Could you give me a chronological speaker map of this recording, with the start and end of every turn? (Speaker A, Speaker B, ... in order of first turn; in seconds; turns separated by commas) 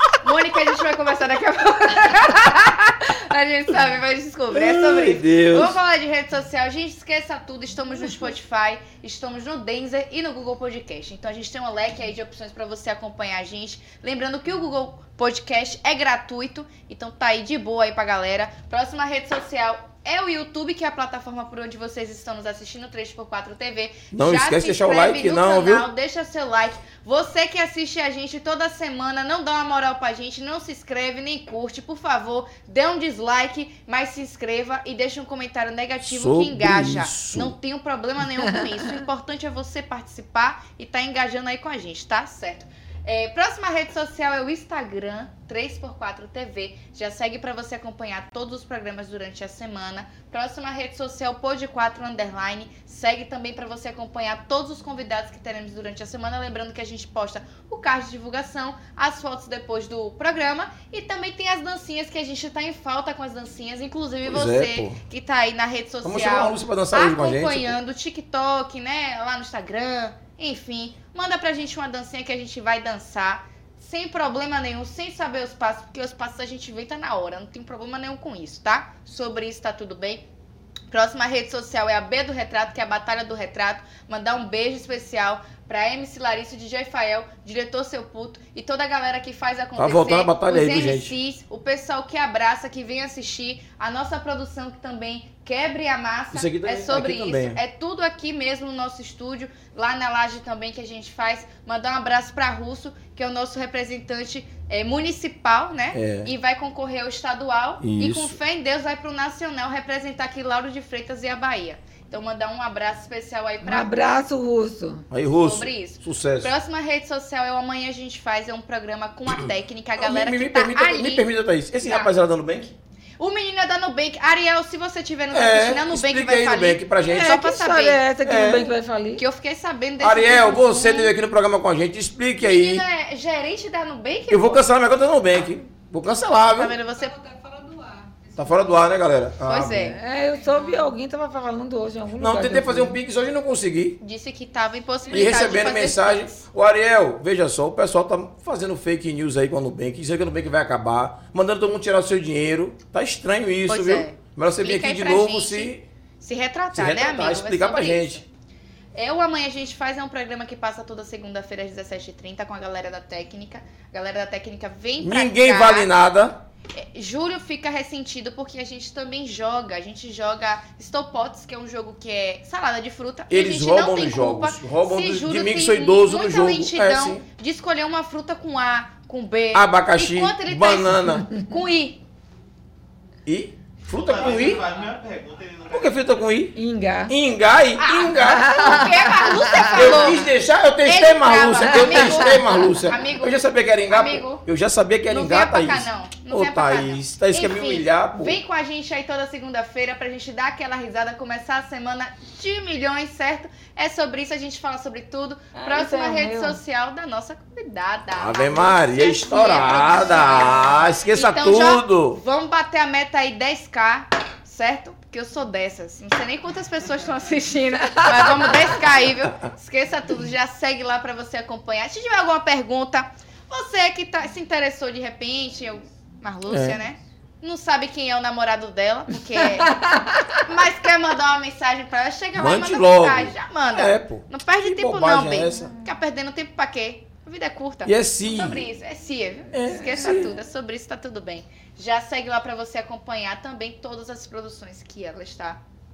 Speaker A: 0.2-80.2, Speaker B: 4.5-5.8, Speaker B: 24.1-25.9, Speaker B: 36.0-37.6, Speaker B: 64.2-65.0, Speaker B: 66.0-67.8, Speaker A: 80.9-113.9, Speaker B: 89.8-91.2, Speaker B: 96.3-97.6, Speaker B: 105.9-106.3, Speaker B: 107.8-108.4, Speaker C: 113.6-115.1, Speaker B: 115.1-116.5, Speaker A: 115.3-121.2, Speaker B: 120.0-122.7, Speaker A: 121.8-122.1, Speaker A: 123.2-128.0, Speaker B: 125.3-127.4, Speaker C: 127.1-129.2, Speaker B: 128.2-128.7, Speaker A: 129.1-131.1, Speaker B: 130.0-132.8, Speaker A: 132.4-134.6, Speaker B: 134.3-136.8, Speaker A: 136.6-137.1, Speaker D: 136.8-138.9, Speaker B: 138.4-140.0, Speaker A: 139.4-140.0, Speaker C: 139.9-143.0, Speaker D: 140.0-141.0, Speaker B: 142.2-144.0, Speaker A: 144.0-146.4, Speaker D: 145.1-145.3, Speaker B: 145.1-155.8, Speaker A: 153.7-158.2, Speaker B: 156.7-158.2, Speaker A: 158.9-165.9, Speaker B: 165.0-166.4, Speaker A: 166.7-182.0, Speaker B: 173.3-177.2, Speaker B: 179.5-181.3, Speaker B: 183.2-184.7, Speaker E: 183.9-186.2, Speaker B: 185.7-188.8, Speaker C: 186.5-187.1, Speaker A: 187.8-190.3, Speaker C: 188.2-190.1, Speaker B: 189.7-198.4, Speaker A: 190.8-194.4, Speaker A: 195.1-245.6, Speaker C: 205.5-206.6, Speaker B: 208.2-212.2, Speaker B: 226.5-226.8, Speaker C: 229.8-230.3, Speaker B: 232.3-235.7, Speaker B: 237.8-238.7, Speaker B: 239.5-240.3